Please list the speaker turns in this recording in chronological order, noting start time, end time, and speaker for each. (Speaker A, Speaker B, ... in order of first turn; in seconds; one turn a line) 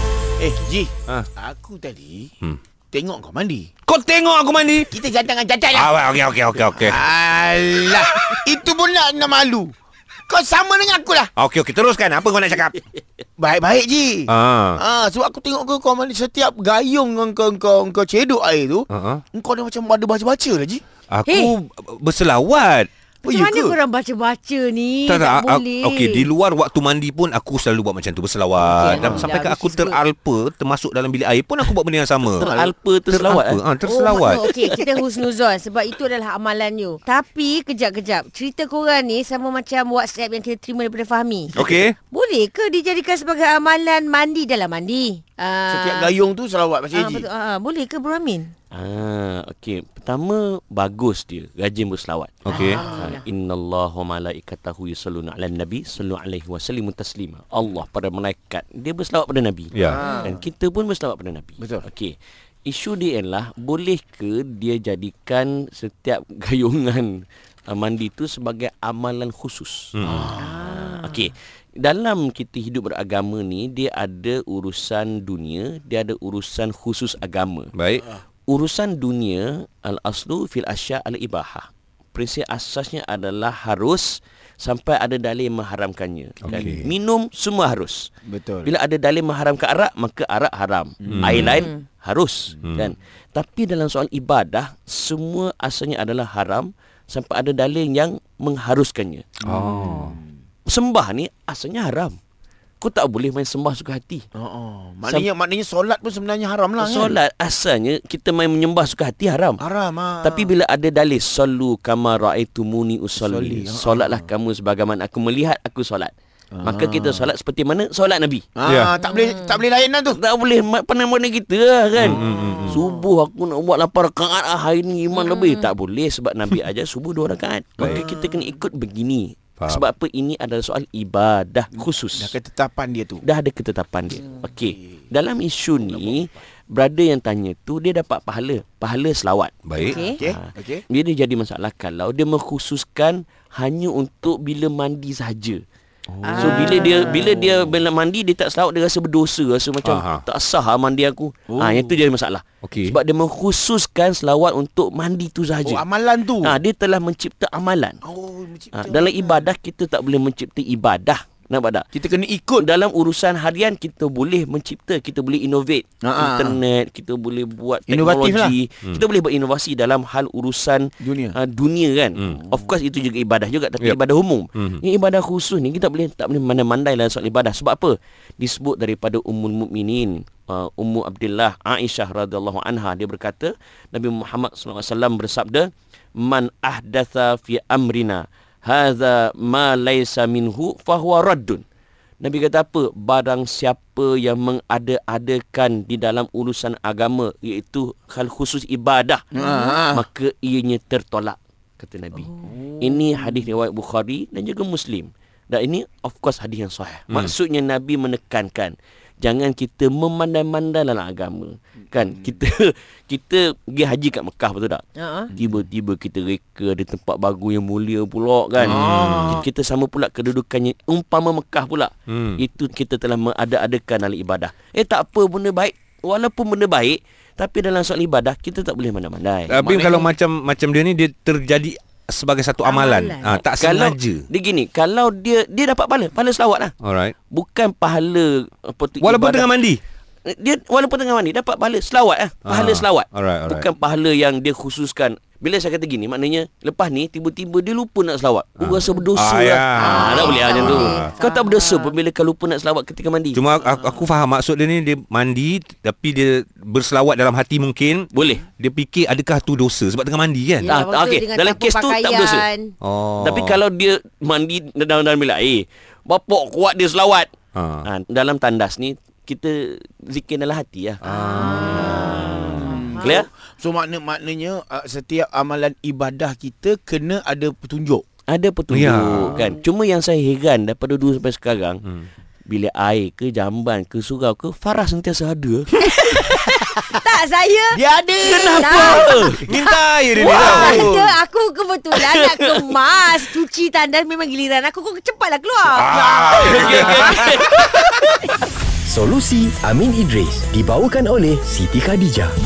Speaker A: 0.4-2.3
Speaker A: 2.9-3.7
Speaker B: 3.9-4.9
Speaker A: 4.9-6.0
Speaker B: 5.7-7.0
Speaker A: 6.7-9.7
Speaker A: 10.3-11.3
Speaker B: 11.4-12.8
Speaker A: 13.4-20.8
Speaker B: 14.3-14.8
Speaker B: 18.9-19.2
Speaker B: 21.1-22.9
Speaker C: 21.3-21.6
Speaker C: 23.2-26.3
Speaker A: 23.2-23.8
Speaker B: 25.1-32.5
Speaker C: 28.6-30.0
Speaker A: 28.9-29.3
Speaker D: 32.4-34.8
Speaker A: 32.4-32.7
Speaker B: 33.1-34.4
Speaker C: 33.8-46.1
Speaker B: 41.5-42.0
Speaker A: 45.7-47.3
Speaker C: 46.9-48.5
Speaker D: 48.7-77.7
Speaker B: 52.5-52.8
Speaker C: 52.5-53.2
Speaker A: 52.5-53.1
Speaker B: 59.7-60.0
Speaker A: 59.8-60.4
Speaker C: 60.0-60.3
Speaker A: 61.6-61.9
Speaker B: 69.9-70.3
Speaker A: 70.0-70.7
Speaker C: 70.4-71.2
Speaker B: 77.8-78.1
Speaker D: 78.5-88.1
Speaker B: 86.4-86.9
Speaker A: 86.5-86.8
Speaker A: 88.3-88.7
Speaker D: 88.7-99.2
Speaker A: 91.0-91.6
Speaker B: 91.1-91.6
Speaker C: 91.5-91.8
Speaker A: 92.5-92.9
Speaker A: 99.4-100.4
Speaker B: 99.5-100.2
Speaker D: 100.7-102.2
Speaker D: 102.8-104.2
Speaker A: 104.4-107.2
Speaker D: 106.8-109.6
Speaker A: 109.6-110.5
Speaker D: 110.2-116.1
Speaker A: 113.2-114.2
Speaker A: 116.5-117.3
Speaker D: 116.6-118.5
Speaker A: 118.6-120.2
Speaker B: 118.7-119.0
Speaker C: 119.0-119.6
Speaker D: 120.1-132.3
Speaker B: 122.0-122.8
Speaker C: 122.4-123.1
Speaker C: 125.1-125.7
Speaker B: 127.8-128.0
Speaker C: 128.0-128.4
Speaker B: 129.6-129.9
Speaker A: 132.1-133.2
Speaker D: 133.2-145.6
Speaker B: 139.7-140.0
Speaker C: 139.8-140.2
Speaker A: 139.9-140.8
Speaker A: 146.1-147.3
Speaker C: 146.2-147.3
Speaker D: 146.3-155.8
Speaker B: 149.8-150.2
Speaker A: 151.5-151.9
Speaker B: 152.6-153.0
Speaker A: 155.6-156.6
Speaker D: 156.4-158.0
Speaker A: 158.0-159.5
Speaker D: 158.7-161.9
Speaker A: 161.9-162.7
Speaker D: 162.6-191.6
Speaker A: 166.0-166.6
Speaker A: 167.9-168.6
Speaker A: 171.0-171.4
Speaker A: 172.3-172.6
Speaker B: 174.6-174.8
Speaker D: 192.2-199.2
Speaker A: 199.3-200.1
Speaker C: 199.4-199.8
Speaker D: 199.9-229.8
Speaker C: 202.3-202.6
Speaker A: 202.5-202.8
Speaker C: 215.0-215.3
Speaker B: 218.6-219.4
Speaker A: 218.6-219.4
Speaker B: 222.1-222.4
Speaker B: 229.5-234.2
Speaker A: 229.6-230.1
Speaker C: 232.6-233.4
Speaker D: 233.6-236.7
Speaker B: 236.8-237.2
Speaker D: 237.3-239.6
Speaker B: 239.0-239.8
Speaker D: 240.3-253.4
Speaker B: 242.5-243.7
Speaker B: 248.6-251.2
Speaker A: 249.8-250.9
Speaker C: 249.9-251.9
Speaker B: 253.3-260.7
Speaker D: 258.1-258.5
Speaker C: 260.6-262.7
Speaker D: 260.7-262.5
Speaker B: 262.8-263.6
Speaker D: 263.2-267.3
Speaker B: 267.6-267.9
Speaker D: 267.8-271.0
Speaker B: 271.0-272.6
Speaker C: 271.0-273.2
Speaker A: 271.6-278.0
Speaker D: 272.0-273.3
Speaker D: 278.3-281.8
Speaker B: 278.7-279.5
Speaker D: 282.5-285.9
Speaker C: 285.8-297.3
Speaker A: 287.7-289.2
Speaker D: 288.3-289.4
Speaker B: 289.5-291.0
Speaker A: 290.3-291.1
Speaker D: 290.4-290.9
Speaker D: 291.9-292.7
Speaker B: 295.7-298.1
Speaker D: 296.4-298.3
Speaker E: 298.9-302.3